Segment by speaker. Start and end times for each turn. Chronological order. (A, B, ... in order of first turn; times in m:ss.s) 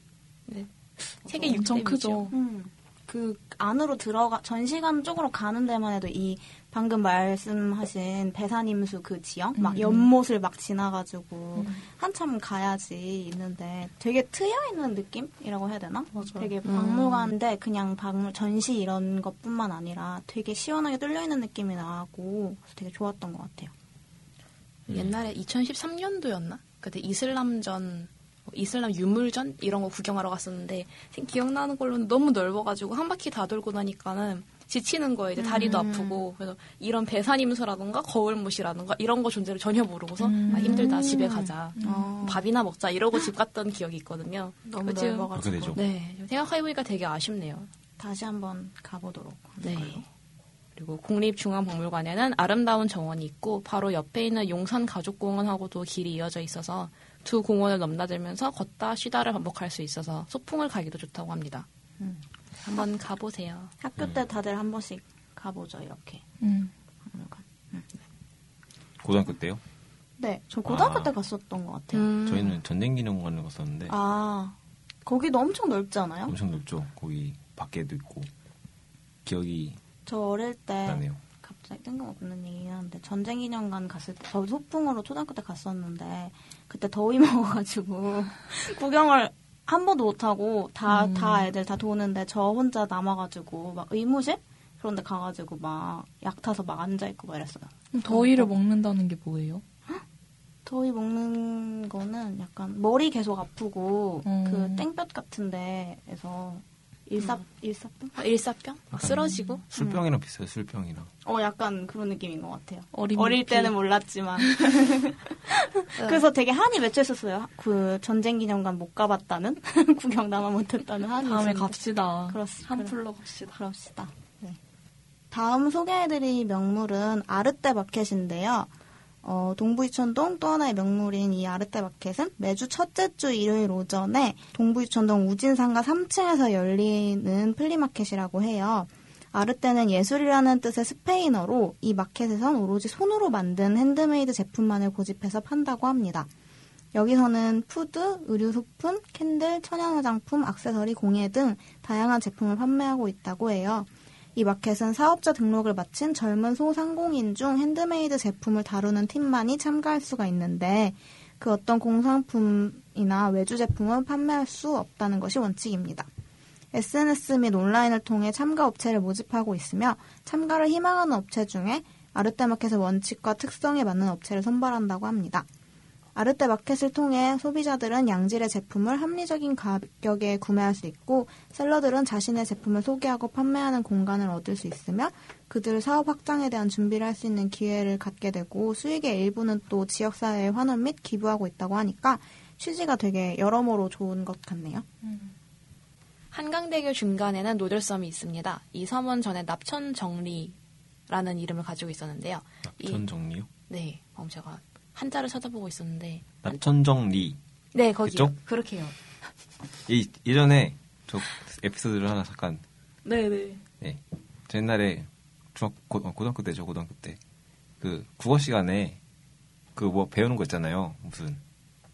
0:00.5-0:02.3 A
0:01.4-0:02.3 B
0:02.3-0:23.7 C
0:09.6-0:10.0 B
0:11.5-0:11.8 B
0:16.1-0:16.5 B
0:16.6-0:17.2 A
0:24.9-0:47.7 A
0:35.4-0:36.2 C
0:40.2-0:41.2 B
0:40.5-0:42.4 C
0:41.8-0:42.1 B
0:44.7-0:45.8 C
0:45.3-0:45.8 D
0:48.0-0:50.0 C
0:49.6-0:50.0 A
0:50.8-1:01.6 A
1:02.6-1:03.7 A
1:03.8-1:06.2 C
1:06.4-1:06.7 B
1:07.0-1:07.9 C
1:09.0-1:09.6 D
1:10.2-1:12.1 C
1:10.7-1:11.1 D
1:11.9-1:12.6 A
1:12.2-1:13.9 D
1:13.9-1:16.3 C
1:16.3-1:18.3 D
1:19.2-1:19.8 D
1:20.0-1:38.5 C
1:20.8-1:21.2 D
1:30.9-1:31.5 B
1:37.9-1:39.6 B
1:40.6-1:48.2 C
1:44.2-1:44.8 B
1:48.2-1:49.6 A
1:48.9-1:51.1 D
1:49.8-1:50.0 C
1:51.2-2:03.0 C
1:52.9-1:53.7 B
2:01.2-2:03.6 B
2:03.5-2:04.6 C
2:05.3-2:08.7 C
2:09.2-2:26.3 C
2:26.9-2:46.1 C
2:46.7-2:55.4 C
2:56.1-3:14.8 C
3:15.0-3:15.3 B
3:16.3-3:20.5 A
3:21.1-3:23.0 A
3:22.7-3:23.5 D
3:23.7-3:26.4 A
3:26.4-3:27.4 D
3:27.7-3:28.9 A
3:28.0-3:28.3 D
3:29.9-3:32.6 D
3:33.0-3:33.6 B
3:33.8-3:37.2 D
3:37.8-3:39.0 D
3:39.8-3:41.4 D